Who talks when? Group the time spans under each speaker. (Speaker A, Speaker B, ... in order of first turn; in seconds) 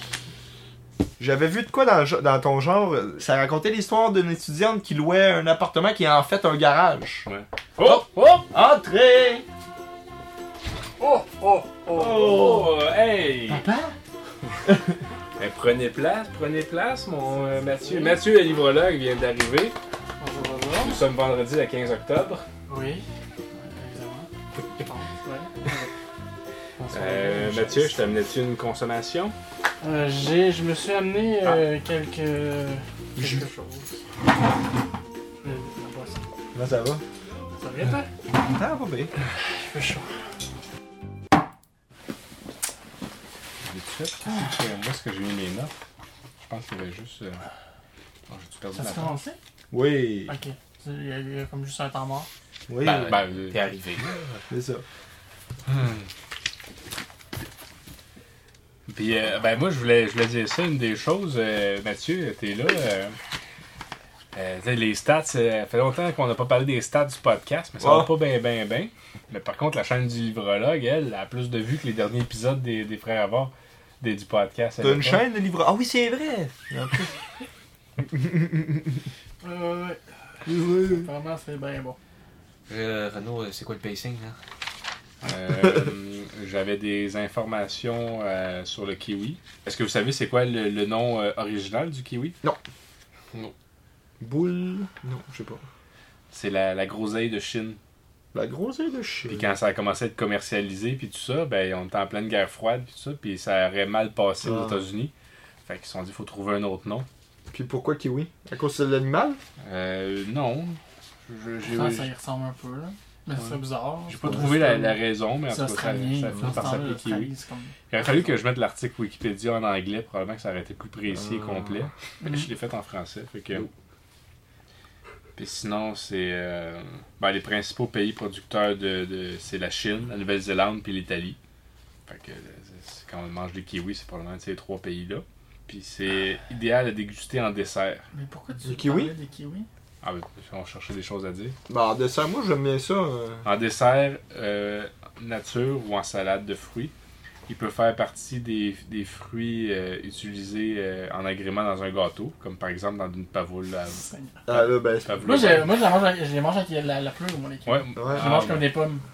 Speaker A: 1.2-7.2, 8.5-9.4, 12.1-12.7, 33.1-33.5, 36.5-37.0, 38.4-39.1, 49.7-50.3, 52.7-53.0, 54.5-54.8, 67.8-68.1, 74.8-77.1, 78.0-78.8, 80.5-81.1, 94.2-95.6, 98.3-99.5, 104.4-104.8, 107.5-109.4, 121.2-121.9, 138.6-139.1, 141.7-143.4, 154.4-155.4, 157.9-158.4
Speaker B: 7.2-8.5, 11.9-13.7, 15.4-19.8, 20.7-22.4, 26.9-29.4, 43.6-45.7, 46.4-47.4, 48.3-49.1, 53.0-53.6, 55.6-56.1, 58.9-63.1, 64.3-75.2, 85.2-92.3, 96.3-97.8, 99.3-105.1, 105.7-107.1, 109.6-112.1, 114.1-117.3, 117.9-123.7, 125.4-131.4, 132.1-138.0, 140.0-141.6, 143.4-146.9, 147.5-155.8, 157.7-158.7
Speaker C: 11.0-12.6, 13.5-13.9, 17.4-18.2, 20.2-21.0, 22.7-25.9, 26.8-28.1, 29.8-33.9, 35.4-36.2, 37.5-38.1, 39.5-40.0, 48.7-49.4, 50.3-52.3, 79.4-82.0, 111.6-117.7, 122.2-122.5, 138.1-139.7, 153.9-154.4, 155.2-159.0
Speaker D: 52.8-54.4, 82.7-84.4